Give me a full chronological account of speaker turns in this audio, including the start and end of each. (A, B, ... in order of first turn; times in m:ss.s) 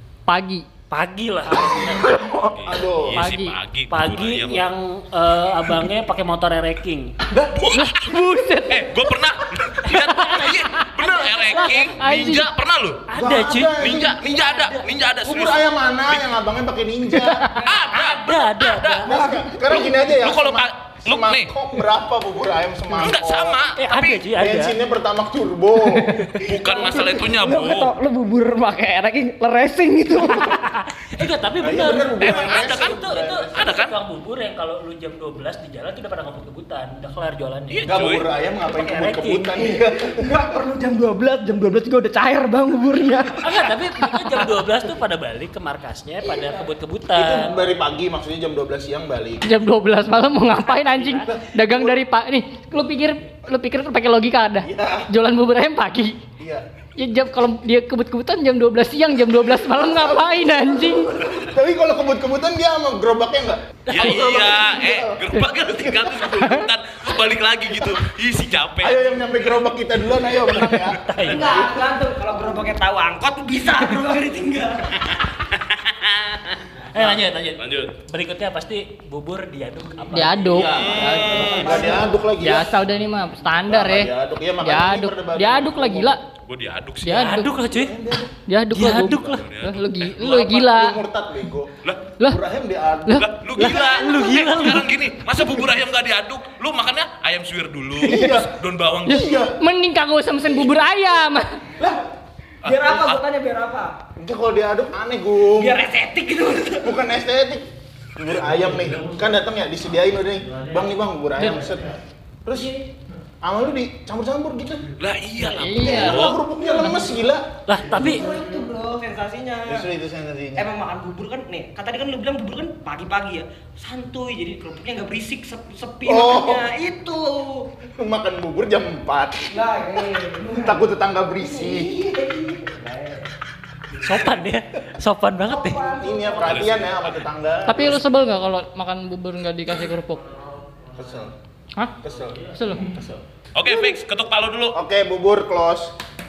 0:00.3-0:00.6 A
0:00.9-0:02.1 B
0:01.6-0:03.2 C
0:02.5-0:04.7 D
0:03.2-0:03.6 A
0:03.9-0:07.1 B
0:07.5-0:08.0 D
0:07.7-0:09.0 A
0:08.7-0:13.1 D
0:10.2-0:10.5 A
0:11.0-0:11.9 B
0:11.2-0:12.5 A
0:13.1-0:14.9 B
0:13.2-0:14.2 C
0:13.7-0:16.2 D
0:15.2-0:17.5 C
0:17.6-0:19.1 D
0:17.8-0:19.2 B
0:19.0-0:23.6 C
0:19.1-0:19.7 E
0:20.1-0:21.5 D
0:23.0-0:24.2 D
0:23.8-0:24.8 B
0:24.4-0:26.2 C
0:26.0-0:30.6 E
0:26.4-0:27.9 D
0:30.4-0:38.0 B
0:31.6-0:33.6 C
0:32.2-0:34.0 D
0:37.7-0:38.3 D
0:37.8-0:40.4 C
0:38.6-0:39.5 B
0:39.6-0:43.5 E
0:43.4-0:47.5 B
0:47.1-0:49.5 C
0:49.4-0:56.2 A
0:50.8-0:51.3 B
0:51.5-0:52.0 C
0:54.6-0:55.1 C
0:56.4-0:56.6 C
0:57.0-1:01.3 A
1:01.2-1:05.2 C
1:03.9-1:09.0 D
1:05.8-1:06.4 C
1:08.8-1:11.8 C
1:10.6-1:11.5 B
1:11.2-1:15.0 E
1:15.4-1:17.0 D
1:16.9-1:20.9 B
1:17.6-1:17.9 D
1:20.1-1:26.2 A
1:20.5-1:21.8 D
1:21.0-1:22.8 C
1:21.5-1:22.1 E
1:23.7-1:26.2 C
1:26.4-1:27.3 D
1:27.0-1:27.6 A
1:27.1-1:28.0 B
1:27.7-1:28.3 C
1:28.4-1:31.0 A
1:28.7-1:29.4 B
1:29.2-1:30.5 D
1:30.2-1:33.2 C
1:31.8-1:32.2 D
1:33.1-1:34.1 A
1:33.2-1:39.3 D
1:33.6-1:34.9 B
1:38.0-1:38.5 C
1:39.0-1:39.6 C
1:39.1-1:41.6 A
1:42.6-1:43.2 D
1:42.6-1:43.9 E
1:44.2-1:45.8 C
1:45.5-1:46.9 E
1:46.8-1:52.7 C
1:53.4-1:54.9 C
1:55.0-1:56.4 D
1:55.4-1:56.3 A
1:55.8-1:57.5 C
1:56.6-1:57.1 E
1:57.7-1:58.2 B
1:57.9-1:59.9 E
1:59.6-2:00.7 C
2:00.6-2:07.7 E
2:06.0-2:06.7 C
2:08.0-2:09.6 C
2:09.5-2:10.8 E
2:10.5-2:11.9 C
2:11.4-2:13.3 E
2:14.0-2:15.9 B
2:15.5-2:16.7 E
2:16.0-2:18.0 C
2:16.4-2:17.0 D
2:17.6-2:20.2 A
2:21.0-2:21.3 C
2:22.0-2:23.8 C
2:22.5-2:22.8 A
2:23.5-2:24.8 D
2:24.7-2:25.9 C